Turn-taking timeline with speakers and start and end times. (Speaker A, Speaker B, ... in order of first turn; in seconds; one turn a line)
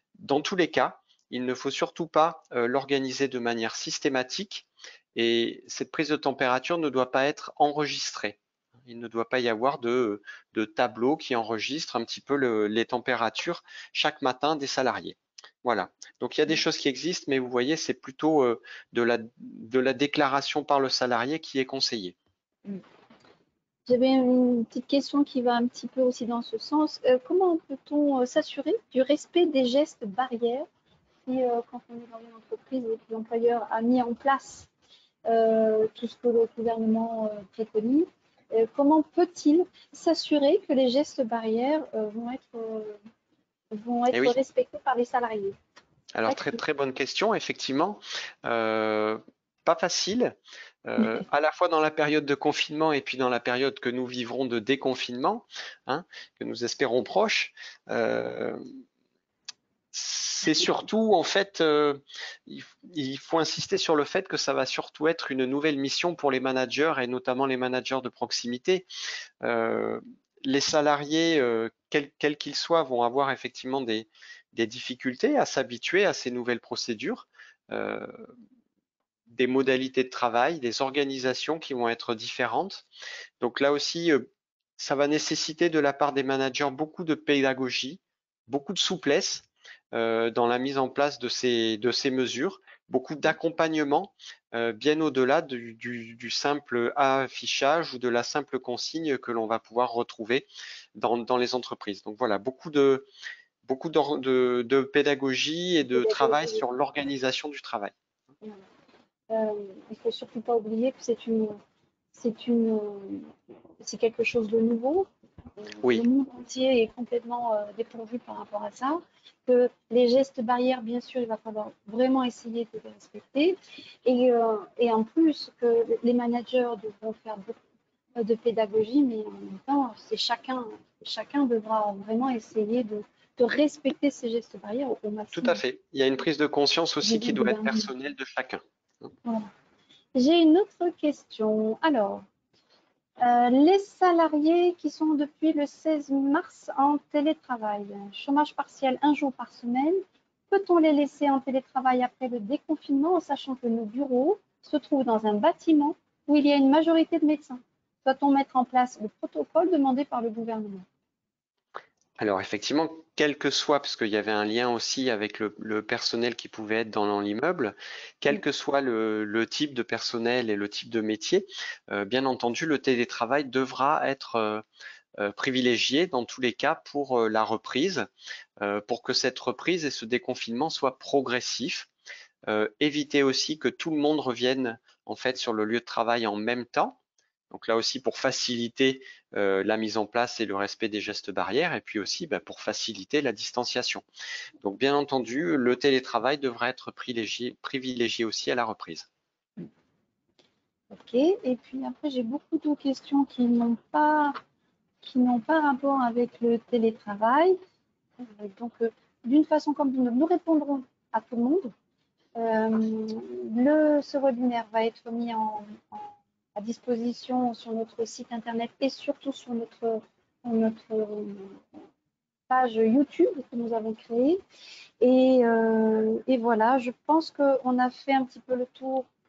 Speaker A: 0.2-22.1
Speaker B: 23.9-30.6
Speaker B: 31.2-34.7
Speaker B: 35.2-43.0
Speaker B: 43.7-45.5
Speaker A: 44.1-44.4
Speaker A: 46.1-58.6
Speaker B: 46.3-46.6
Speaker A: 59.9-68.8
Speaker A: 69.4-78.3
Speaker A: 79.3-82.9
Speaker A: 83.4-84.3
Speaker A: 84.8-103.1
Speaker A: 103.6-107.9
Speaker B: 105.9-106.6
Speaker B: 109.3-111.6
Speaker B: 112.1-127.6
Speaker B: 128.2-135.6
Speaker A: 135.3-138.6
Speaker B: 137.0-137.9
Speaker B: 139.2-139.5
Speaker B: 140.1-142.2
Speaker B: 143.2-160.8
Speaker A: 162.2-174.6
Speaker A: 175.2-178.1
Speaker A: 178.6-181.9
Speaker A: 182.4-187.0
Speaker A: 187.5-194.0
Speaker A: 194.6-199.1
Speaker B: 200.9-204.4
Speaker B: 205.0-207.6
Speaker B: 208.2-211.7
Speaker B: 212.3-221.6
Speaker B: 222.5-224.4
Speaker B: 225.0-229.1